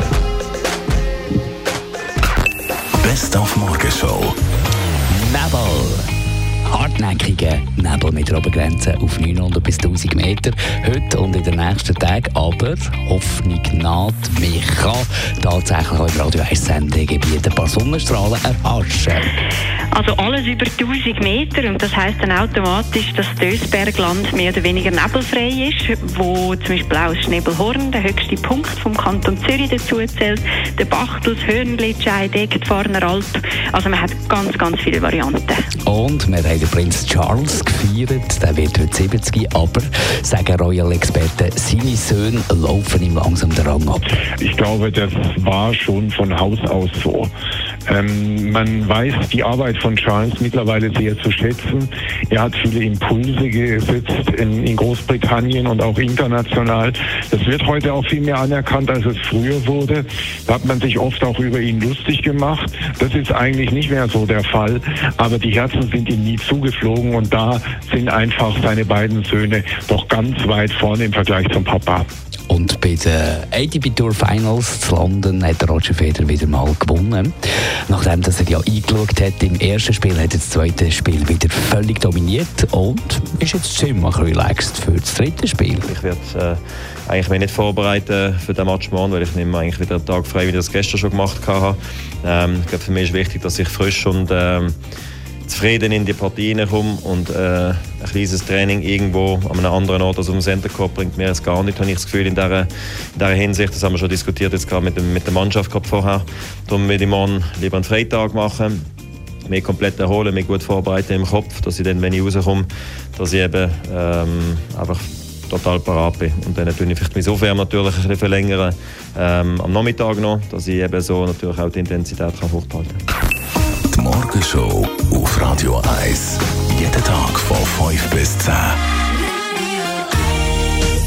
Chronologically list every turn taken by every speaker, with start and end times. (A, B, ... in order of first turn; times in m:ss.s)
0:03.0-0:04.4 A
0:05.1-0:06.1 B
0:06.7-0:19.3 B
0:19.9-0:35.6 C
0:35.8-0:44.1 B
0:44.4-0:47.3 D
0:47.9-1:12.1 D
1:12.5-1:17.3 B
1:17.9-1:25.9 B
1:25.8-1:34.8 E
1:35.5-1:48.8 E
1:49.5-2:03.0 E
2:03.9-2:08.8 A